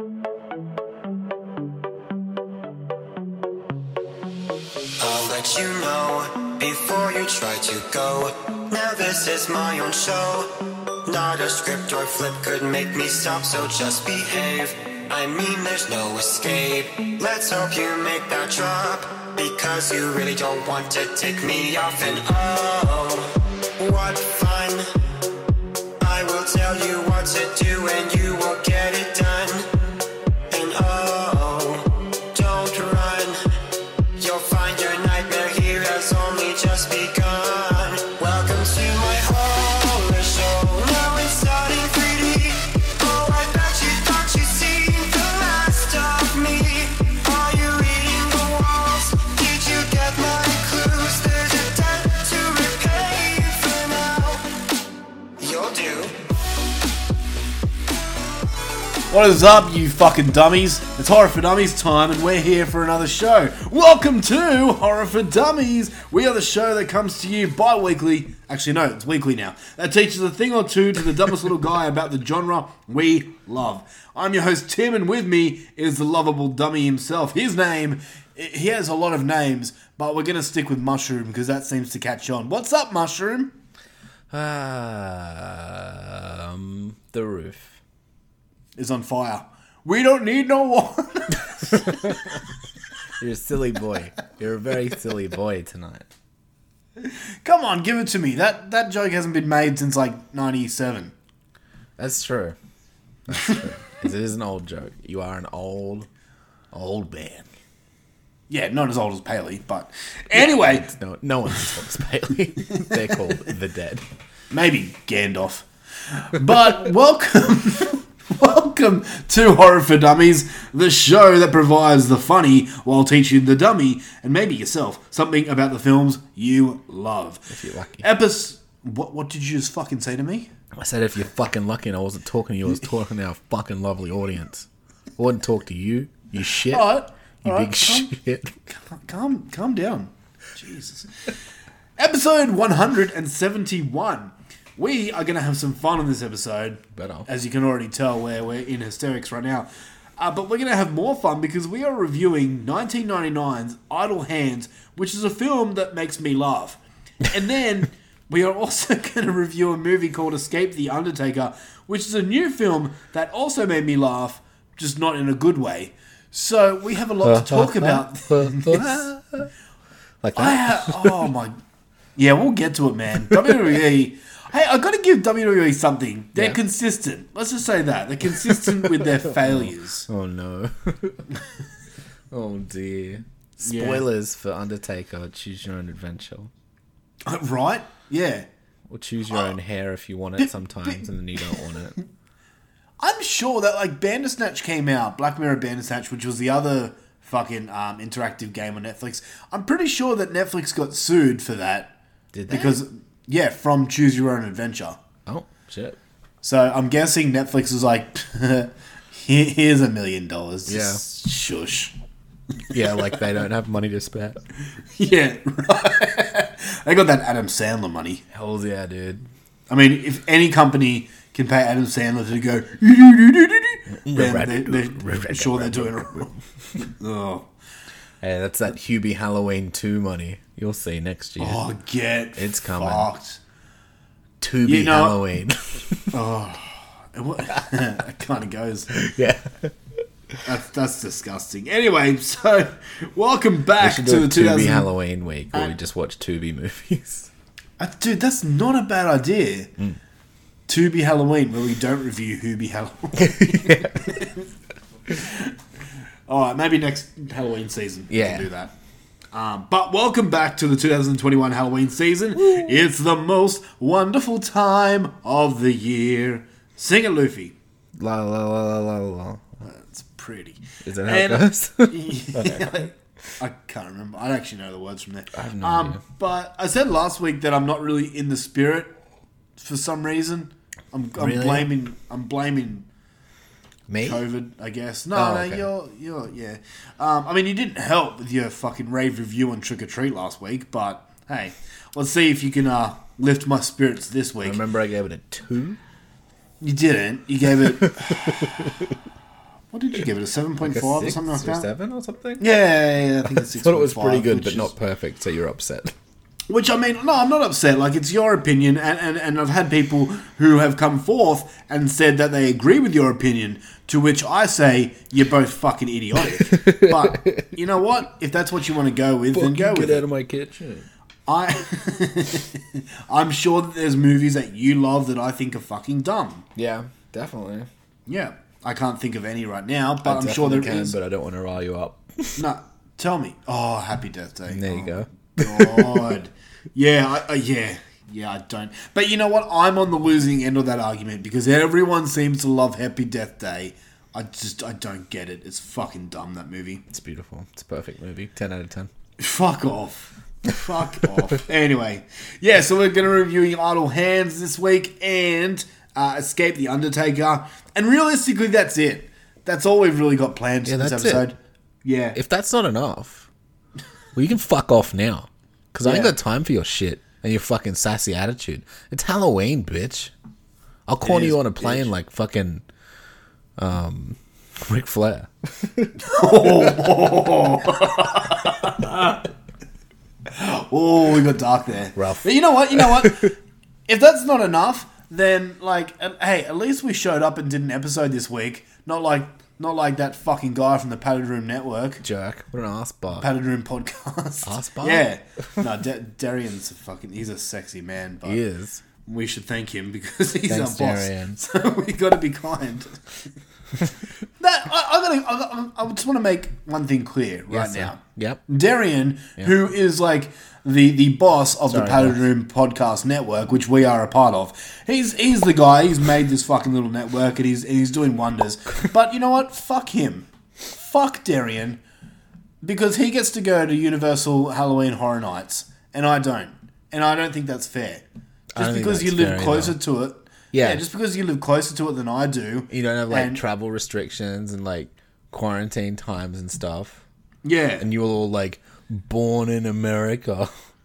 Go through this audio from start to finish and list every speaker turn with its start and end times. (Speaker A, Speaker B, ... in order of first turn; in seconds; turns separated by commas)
Speaker A: 5.0-10.5, Speaker A: 11.0-24.9, Speaker A: 26.0-29.6, Speaker A: 30.5-33.4, Speaker A: 34.2-54.4, Speaker A: 55.4-56.1, Speaker B: 59.1-83.5, Speaker C: 84.3-87.8, Speaker B: 88.8-92.1, Speaker C: 91.7-92.4, Speaker C: 93.2-96.1, Speaker B: 97.0-101.1, Speaker C: 102.0-102.6, Speaker C: 103.3-106.1, Speaker C: 106.7-107.5, Speaker B: 108.5-110.9, Speaker C: 110.3-114.0, Speaker B: 114.5-127.5, Speaker C: 127.5-128.1, Speaker B: 128.0-130.5, Speaker C: 130.7-134.7, Speaker C: 135.2-138.5, Speaker B: 136.7-138.1, Speaker B: 138.7-141.1, Speaker B: 142.0-169.1, Speaker C: 146.9-147.3, Speaker C: 167.2-169.5, Speaker C: 170.2-171.3, Speaker B: 170.3-171.6, Speaker B: 172.2-180.1, Speaker C: 173.3-173.6, Speaker C: 178.3-181.2, Speaker C: 182.3-186.5, Speaker B: 183.6-184.1, Speaker B: 187.3-188.5, Speaker C: 188.9-191.9, Speaker B: 190.4-191.8, Speaker B: 193.0-201.9, Speaker C: 202.3-202.8, Speaker B: 202.5-205.0, Speaker C: 205.2-206.0, Speaker B: 206.4-211.9, Speaker C: 210.7-211.0, Speaker C: 212.7-214.4, Speaker B: 212.7-213.2, Speaker B: 214.9-218.2, Speaker C: 218.3-219.2, Speaker B: 219.7-227.5, Speaker C: 224.0-226.3, Speaker C: 228.2-231.6, Speaker B: 231.4-233.4, Speaker C: 232.3-233.1, Speaker C: 234.4-236.1, Speaker B: 234.6-235.2, Speaker B: 236.1-238.9, Speaker C: 238.9-239.7, Speaker B: 240.4-244.9, Speaker C: 243.8-247.3, Speaker B: 245.5-245.8, Speaker B: 247.8-249.7, Speaker B: 250.7-254.4, Speaker C: 253.2-254.2, Speaker B: 255.1-255.5, Speaker B: 256.3-258.7, Speaker C: 258.1-258.5, Speaker B: 259.3-267.5, Speaker C: 262.4-262.8, Speaker C: 268.0-269.5, Speaker B: 269.6-278.9, Speaker C: 270.8-272.9, Speaker C: 275.3-276.0, Speaker B: 279.6-282.9, Speaker C: 281.2-281.7, Speaker C: 283.9-284.2, Speaker B: 284.0-294.6, Speaker C: 285.1-285.7, Speaker C: 294.4-295.8, Speaker B: 296.6-298.7, Speaker C: 297.6-298.9, Speaker B: 299.7-301.7, Speaker C: 300.6-302.5, Speaker B: 302.4-304.7, Speaker C: 303.2-305.9, Speaker B: 306.5-320.1, Speaker C: 316.4-317.5, Speaker C: 319.3-320.9, Speaker B: 321.3-326.4, Speaker C: 326.6-327.7, Speaker B: 328.1-331.0, Speaker C: 330.0-332.4, Speaker B: 332.4-346.8, Speaker C: 334.5-336.1, Speaker C: 346.9-348.9, Speaker B: 349.2-362.2, Speaker C: 360.6-361.3, Speaker C: 362.1-363.3, Speaker C: 364.1-370.1, Speaker B: 365.8-366.1, Speaker C: 370.9-372.6, Speaker B: 371.0-371.9, Speaker C: 373.6-376.9, Speaker B: 376.0-379.2, Speaker B: 380.3-383.4, Speaker C: 381.9-383.3, Speaker B: 383.9-392.0, Speaker C: 392.0-393.3, Speaker B: 393.1-398.4, Speaker C: 394.4-395.1, Speaker C: 398.2-398.8, Speaker B: 399.0-403.0, Speaker C: 400.5-401.4, Speaker B: 404.4-421.8, Speaker C: 407.5-408.4, Speaker C: 411.7-412.2, Speaker B: 422.6-428.0, Speaker C: 428.5-429.8, Speaker B: 428.6-433.4, Speaker C: 430.5-430.8, Speaker C: 432.7-437.0, Speaker B: 437.4-437.9, Speaker C: 437.8-440.5